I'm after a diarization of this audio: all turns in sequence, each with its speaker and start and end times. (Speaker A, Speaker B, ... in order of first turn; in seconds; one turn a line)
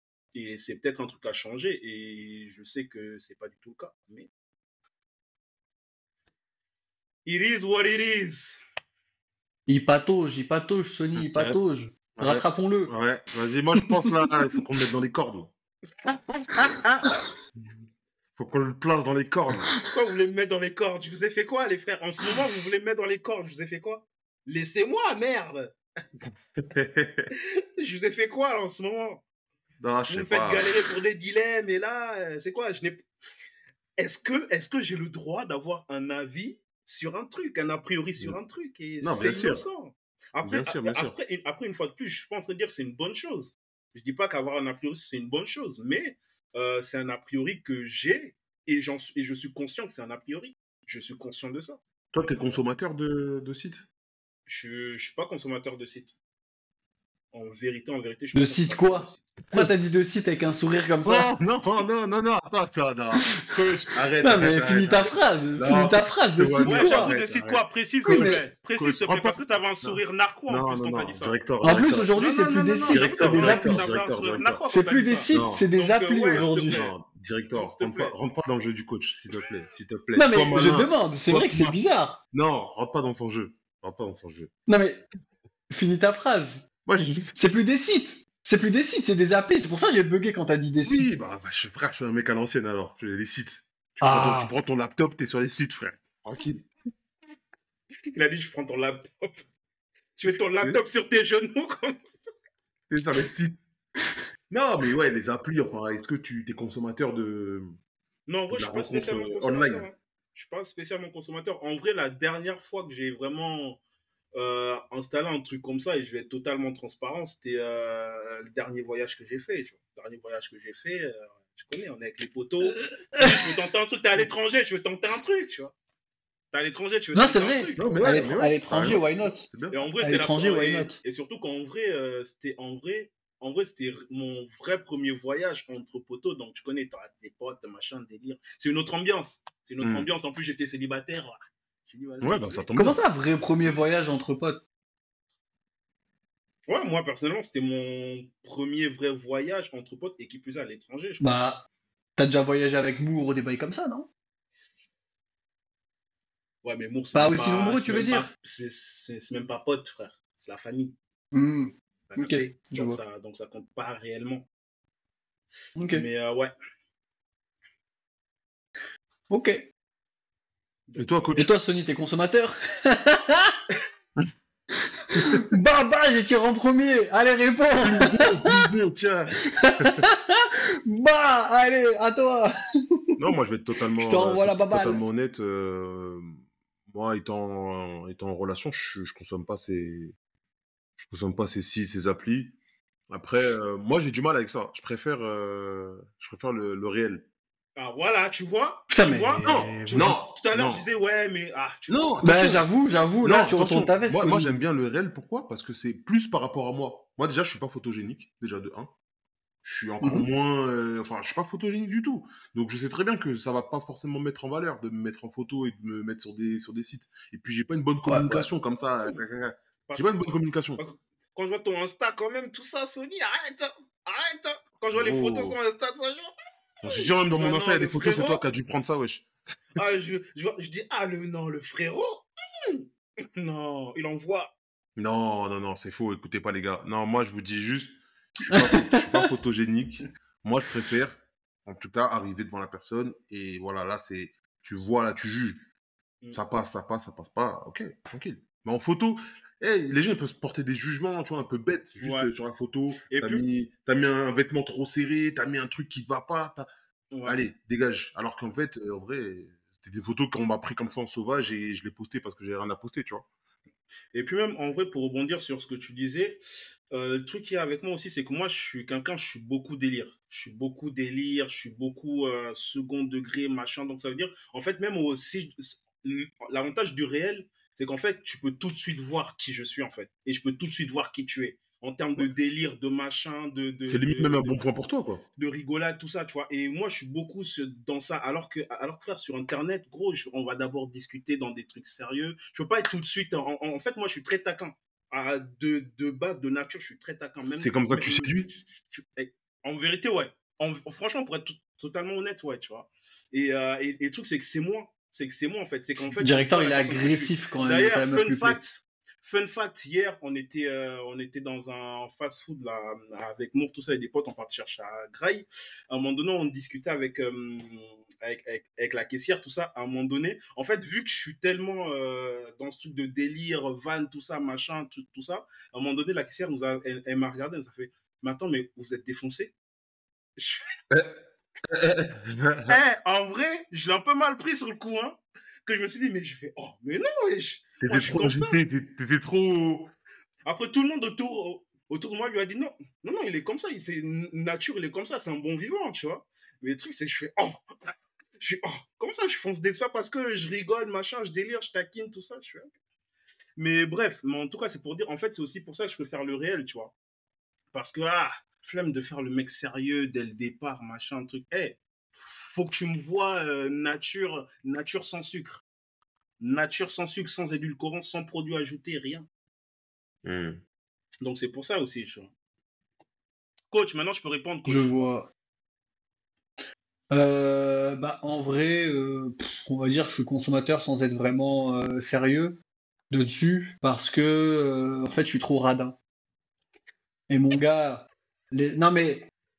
Speaker A: 0.3-4.3
Speaker A: 7.2-8.6
Speaker B: 9.7-12.9
Speaker C: 11.1-11.6
Speaker C: 12.2-15.5
Speaker C: 16.6-17.1
Speaker C: 18.4-19.7
Speaker A: 19.8-25.7
Speaker C: 26.7-27.3
Speaker A: 27.3-29.2
Speaker C: 29.8-30.9
Speaker A: 30.1-33.0
Speaker A: 34.0-51.8
Speaker C: 39.0-39.7
Speaker C: 40.4-41.2
Speaker C: 52.1-53.9
Speaker A: 54.5-56.1
Speaker A: 57.3-59.4
Speaker B: 58.3-61.3
Speaker C: 59.4-59.7
Speaker C: 61.0-72.2
Speaker B: 64.2-67.2
Speaker A: 66.6-71.4
Speaker B: 68.1-68.4
Speaker B: 71.6-73.8
Speaker A: 72.2-76.9
Speaker C: 72.9-74.6
Speaker B: 74.7-76.9
Speaker C: 75.3-75.7
Speaker C: 76.3-81.8
Speaker A: 77.5-78.1
Speaker B: 80.1-82.2
Speaker C: 82.3-84.5
Speaker B: 84.7-85.0
Speaker B: 85.7-86.7
Speaker C: 86.8-87.3
Speaker B: 87.3-91.1
Speaker C: 90.8-96.6
Speaker B: 94.0-94.5
Speaker A: 98.1-99.4
Speaker A: 100.2-102.1
Speaker C: 102.9-103.6
Speaker C: 104.5-107.8
Speaker A: 108.3-113.8
Speaker C: 108.5-109.9
Speaker A: 114.3-125.7
Speaker B: 122.6-123.4
Speaker A: 126.5-128.2
Speaker B: 127.1-129.5
Speaker C: 127.8-129.9
Speaker A: 129.7-142.7
Speaker B: 130.0-131.0
Speaker C: 139.8-140.1
Speaker C: 142.2-143.0
Speaker B: 142.7-144.6
Speaker A: 146.7-151.2
Speaker B: 151.2-151.6
Speaker B: 152.2-154.1
Speaker A: 156.6-160.9
Speaker B: 157.1-158.3
Speaker B: 161.3-163.0
Speaker A: 162.1-164.5
Speaker B: 165.8-166.0
Speaker A: 165.9-166.5
Speaker B: 169.3-169.7
Speaker A: 170.9-171.2
Speaker C: 171.0-171.5
Speaker B: 171.4-173.6
Speaker B: 175.1-178.7
Speaker C: 177.8-180.0
Speaker B: 179.6-183.0
Speaker C: 183.2-186.4
Speaker B: 184.0-185.0
Speaker C: 186.9-190.1
Speaker C: 191.0-192.6
Speaker C: 193.1-197.2
Speaker A: 197.8-202.1
Speaker B: 198.9-200.2
Speaker C: 199.4-200.8
Speaker C: 201.9-202.6
Speaker B: 202.2-204.6
Speaker C: 203.2-208.9
Speaker C: 209.6-220.8
Speaker B: 210.0-210.2
Speaker B: 218.1-218.5
Speaker A: 219.9-220.2
Speaker A: 220.8-226.3
Speaker C: 224.9-225.6
Speaker C: 226.8-229.3
Speaker A: 226.8-228.4
Speaker A: 229.8-232.8
Speaker A: 233.4-234.5
Speaker C: 234.9-245.6
Speaker B: 238.5-239.3
Speaker C: 246.3-256.7
Speaker A: 252.0-252.3
Speaker A: 253.1-253.4
Speaker A: 257.1-257.4
Speaker C: 257.2-263.2
Speaker A: 264.1-266.4
Speaker A: 266.9-284.7
Speaker C: 283.9-285.2
Speaker A: 285.4-329.5
Speaker C: 297.5-298.5
Speaker B: 306.2-308.6
Speaker A: 330.4-330.6
Speaker C: 331.6-332.8
Speaker A: 332.7-338.6
Speaker C: 337.8-339.9
Speaker A: 340.4-347.6
Speaker A: 348.4-352.7
Speaker A: 353.6-356.9
Speaker A: 357.7-365.6
Speaker A: 366.4-369.3
Speaker C: 370.2-370.6
Speaker A: 371.2-372.3
Speaker A: 373.7-375.0
Speaker B: 374.6-375.3
Speaker B: 377.1-382.6
Speaker B: 383.1-385.9
Speaker B: 387.3-389.3